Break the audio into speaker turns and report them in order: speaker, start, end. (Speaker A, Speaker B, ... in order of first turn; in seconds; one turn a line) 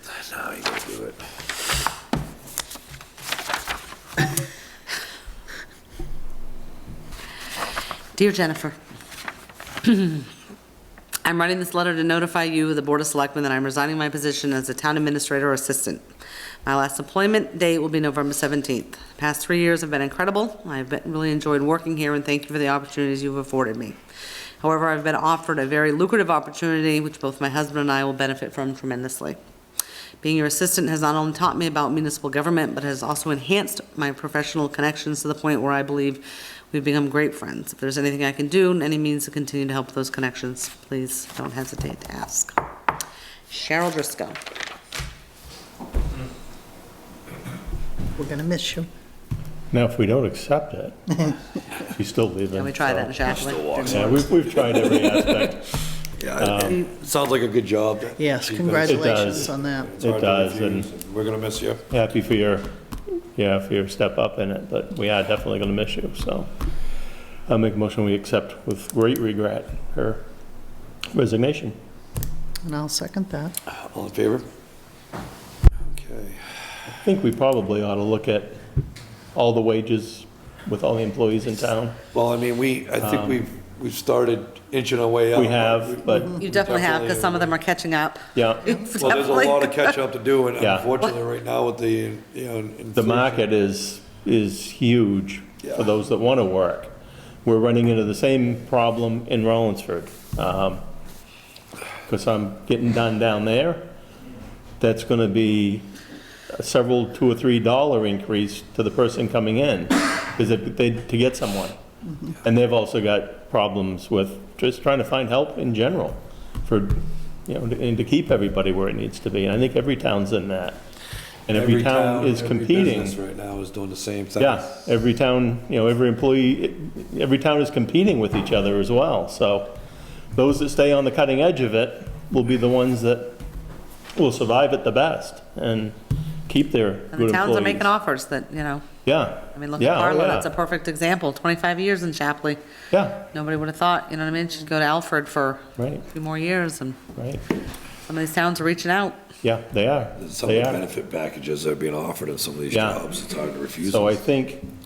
Speaker A: 0.1-1.2
Speaker B: 8.2-8.8
Speaker B: 9.8-10.3
Speaker B: 11.2-16.1
Speaker B: 16.6-24.0
Speaker B: 24.6-29.4
Speaker B: 30.2-42.5
Speaker B: 43.5-44.4
Speaker C: 48.2-48.9
Speaker D: 49.7-51.2
Speaker D: 51.9-53.1
Speaker B: 52.5-54.3
Speaker A: 53.2-55.5
Speaker D: 53.9-55.7
Speaker A: 56.2-61.9
Speaker D: 56.4-56.8
Speaker C: 58.2-59.9
Speaker D: 58.9-60.9
Speaker D: 61.9-62.7
Speaker D: 63.3-66.5
Speaker D: 67.5-70.2
Speaker D: 71.1-71.8
Speaker C: 72.7-73.5
Speaker A: 73.7-74.5
Speaker A: 75.8-76.5
Speaker D: 77.0-78.6
Speaker D: 79.3-82.0
Speaker A: 82.1-87.6
Speaker D: 83.0-83.4
Speaker D: 85.3-86.4
Speaker B: 86.4-89.9
Speaker D: 88.3-88.8
Speaker A: 89.0-93.5
Speaker D: 90.6-90.9
Speaker D: 93.0-96.9
Speaker A: 95.6-95.9
Speaker D: 97.5-100.8
Speaker D: 102.1-103.9
Speaker D: 104.8-105.9
Speaker D: 106.5-111.8
Speaker D: 112.4-120.8
Speaker D: 121.5-123.2
Speaker A: 121.5-124.8
Speaker D: 124.4-129.8
Speaker D: 130.3-133.4
Speaker D: 134.2-136.0
Speaker D: 136.5-137.9
Speaker B: 137.1-138.9
Speaker D: 139.1-140.5
Speaker B: 139.5-142.6
Speaker D: 142.9-143.2
Speaker B: 143.3-147.0
Speaker D: 145.8-146.0
Speaker D: 147.2-147.4
Speaker B: 148.1-149.2
Speaker D: 149.4-150.8
Speaker A: 150.2-154.2
Speaker D: 152.7-153.1
Speaker D: 153.8-154.7